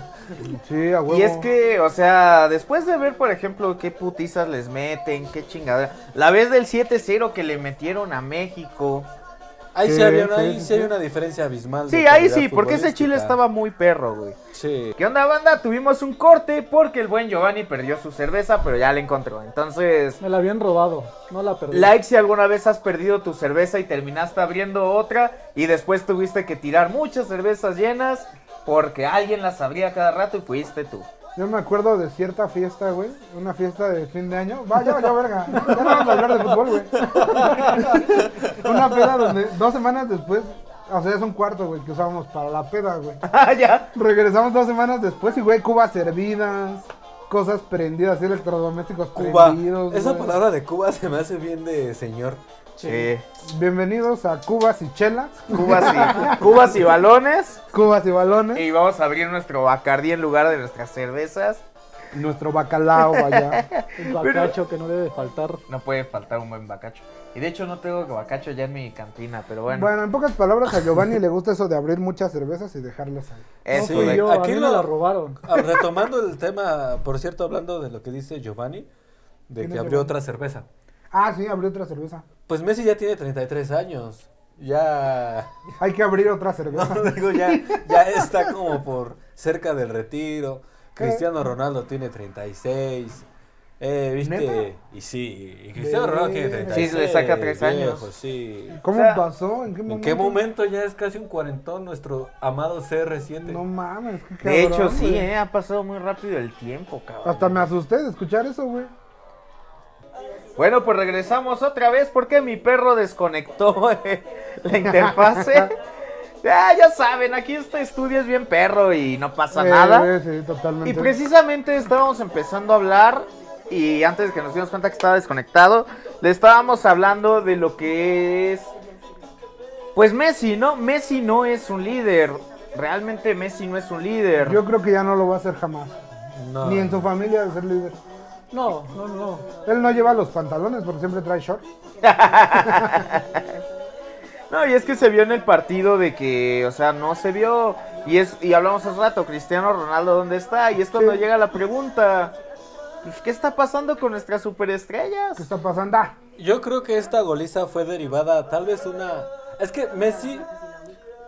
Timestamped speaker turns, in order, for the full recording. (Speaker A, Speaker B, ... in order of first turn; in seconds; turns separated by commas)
Speaker A: 0.5-1.5, Speaker B: 1.1-9.1, Speaker C: 9.7-13.4, Speaker A: 9.8-10.9, Speaker B: 11.9-14.4, Speaker C: 14.5-15.0, Speaker B: 15.0-20.2, Speaker D: 20.2-21.9, Speaker B: 21.7-31.1, Speaker A: 31.4-43.2, Speaker C: 37.0-39.2, Speaker B: 43.3-43.9, Speaker A: 44.0-50.4, Speaker C: 49.1-52.4, Speaker D: 52.8-53.1, Speaker B: 52.8-53.3, Speaker A: 53.4-56.5, Speaker B: 55.5-57.6, Speaker A: 57.7-58.6, Speaker B: 58.5-61.6, Speaker A: 62.1-63.7, Speaker B: 63.1-64.5, Speaker D: 64.0-65.6, Speaker B: 65.7-69.9, Speaker A: 69.7-73.5, Speaker B: 73.7-74.3, Speaker C: 73.7-74.9, Speaker D: 73.7-75.5, Speaker C: 75.4-78.9, Speaker C: 79.5-80.7, Speaker A: 79.6-80.1, Speaker A: 81.1-82.2, Speaker C: 82.5-85.6, Speaker A: 85.8-88.5, Speaker C: 86.7-93.3, Speaker A: 91.0-91.3, Speaker C: 93.8-98.8, Speaker A: 94.2-94.6, Speaker A: 95.8-97.0, Speaker B: 96.7-98.1, Speaker A: 98.7-100.4, Speaker B: 98.9-99.2, Speaker C: 99.9-103.6, Speaker A: 103.4-105.3, Speaker B: 104.4-107.6, Speaker A: 107.2-108.9, Speaker B: 110.6-115.7, Speaker A: 114.9-115.7, Speaker B: 116.4-120.1, Speaker A: 119.5-121.1, Speaker B: 120.8-128.7, Speaker B: 129.9-134.6, Speaker A: 134.4-136.0, Speaker C: 136.3-137.1, Speaker A: 136.6-138.0, Speaker D: 138.5-139.5, Speaker A: 139.7-141.7, Speaker B: 142.0-143.6, Speaker A: 142.6-143.0, Speaker B: 144.5-152.4, Speaker A: 150.9-151.2, Speaker B: 153.0-155.5, Speaker A: 155.4-156.2, Speaker C: 156.4-160.5